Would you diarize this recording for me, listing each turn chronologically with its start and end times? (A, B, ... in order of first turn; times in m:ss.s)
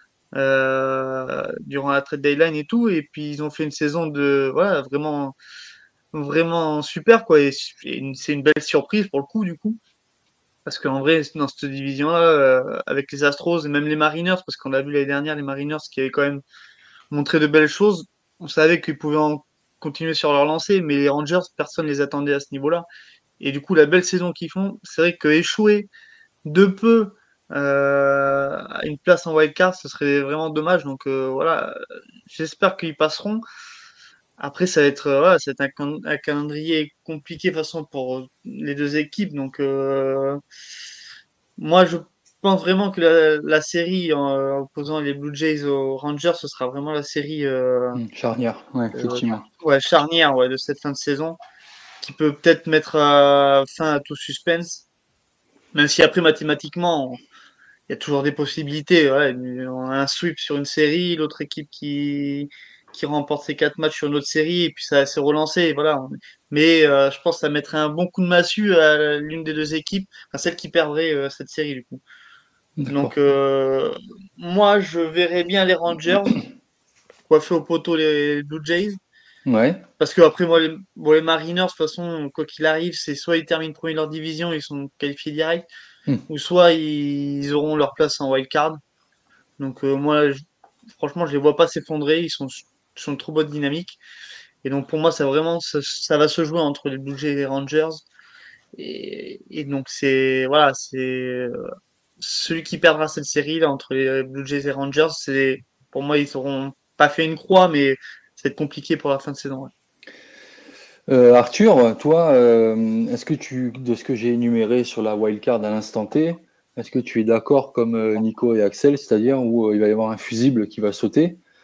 0:00.3-0:05.4 A
0:06.1-0:09.8 A
0:10.7-0:16.4 A
0:17.1-0:22.9 A
0:23.4-0:25.9 A
0:26.4-0:33.4 A
0:34.4-0:40.4 A
0:41.6-0:48.0 A
0:48.0-0:49.4 B
0:48.9-0:51.4 A
0:52.0-0:54.8 A
0:55.7-0:57.2 A
0:57.9-1:12.0 A
1:12.8-1:13.1 B
1:12.9-1:16.4 A
1:17.3-1:19.0 A
1:19.5-1:19.8 B
1:20.0-1:25.7 A
1:26.3-1:28.8 A
1:29.6-1:34.0 A
1:34.6-1:38.0 A
1:38.8-1:41.6 A
1:42.2-1:49.7 A
1:51.1-2:01.4 B